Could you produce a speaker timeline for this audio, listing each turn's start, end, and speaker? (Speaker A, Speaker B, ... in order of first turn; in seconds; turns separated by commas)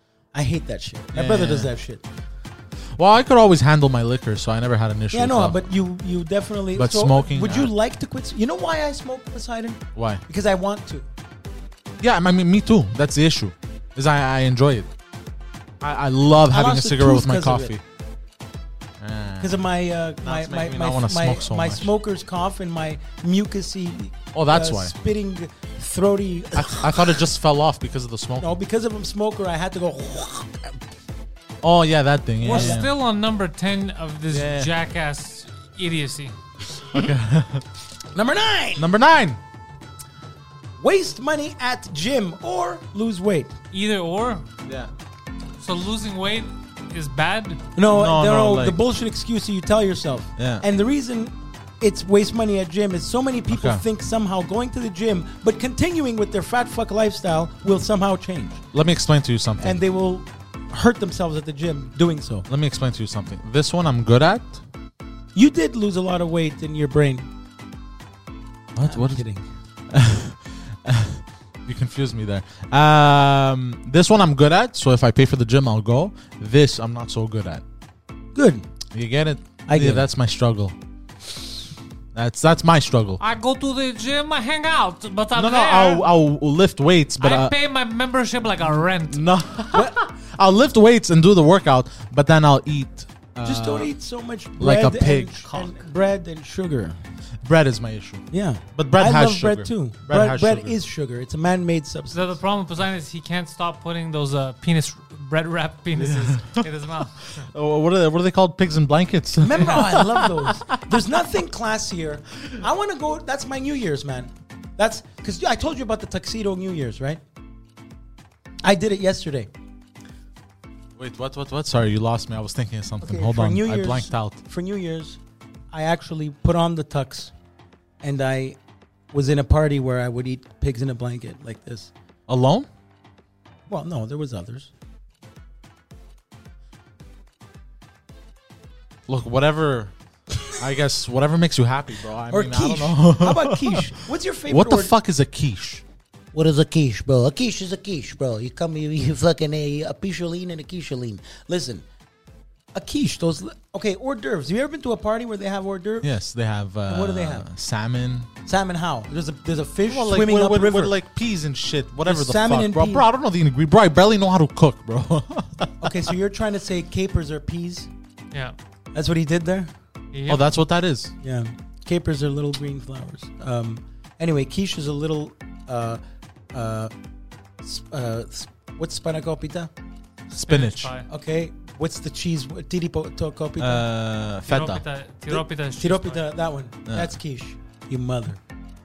Speaker A: 0.3-2.0, Speaker B: 1.1-1.7, Speaker B: 3.0-5.6, Speaker A: 5.1-11.1, Speaker B: 6.7-7.7, Speaker B: 9.9-10.2, Speaker B: 12.0-14.9, Speaker B: 15.8-17.8, Speaker A: 16.5-17.7, Speaker B: 19.0-19.6, Speaker A: 19.4-27.1, Speaker B: 20.2-21.9, Speaker B: 24.3-24.9, Speaker B: 26.5-28.6, Speaker A: 28.4-30.7, Speaker B: 31.6-32.9, Speaker C: 32.4-36.3, Speaker A: 32.5-32.8, Speaker B: 34.3-34.7, Speaker B: 36.9-37.6, Speaker A: 38.1-38.9, Speaker B: 38.8-39.4, Speaker A: 40.8-43.5, Speaker C: 43.7-44.5, Speaker B: 44.6-44.9, Speaker C: 45.6-47.6, Speaker A: 47.8-58.6, Speaker B: 47.9-48.8, Speaker B: 50.4-50.6, Speaker B: 53.5-53.8, Speaker B: 58.7-59.8, Speaker A: 59.6-62.5, Speaker B: 62.5-64.6, Speaker A: 65.3-67.3, Speaker B: 68.7-69.2, Speaker A: 68.8-69.4, Speaker B: 69.9-77.6, Speaker A: 78.3-78.7, Speaker B: 78.9-80.7, Speaker A: 79.7-80.1, Speaker B: 82.1-83.2, Speaker C: 83.2-86.1, Speaker B: 85.3-87.5, Speaker C: 87.2-89.2, Speaker B: 89.1-93.9, Speaker A: 93.4-97.0, Speaker B: 94.6-95.7, Speaker B: 97.4-100.8, Speaker A: 98.3-102.4, Speaker C: 102.1-107.2, Speaker B: 106.0-106.7, Speaker B: 107.2-110.8, Speaker A: 109.4-117.2, Speaker A: 118.6-119.5, Speaker B: 121.0-124.4, Speaker A: 123.0-125.2, Speaker A: 125.7-127.3, Speaker A: 128.0-128.6, Speaker A: 129.1-131.9, Speaker B: 132.3-132.7, Speaker A: 133.7-134.7, Speaker B: 139.1-139.9, Speaker B: 140.5-145.8, Speaker A: 142.3-144.9, Speaker A: 146.3-151.8, Speaker A: 152.7-156.1, Speaker B: 156.0-158.3, Speaker A: 156.9-157.5, Speaker A: 158.4-161.0, Speaker B: 159.9-166.1, Speaker A: 162.0-163.1, Speaker A: 165.8-167.9, Speaker A: 168.9-169.7, Speaker C: 170.1-170.4, Speaker B: 170.3-171.1, Speaker A: 171.2-176.0, Speaker A: 176.5-176.9, Speaker A: 177.6-179.7, Speaker B: 180.3-180.9, Speaker C: 180.5-181.1, Speaker A: 181.1-183.8, Speaker B: 183.6-184.8, Speaker C: 184.4-186.2, Speaker A: 185.3-188.4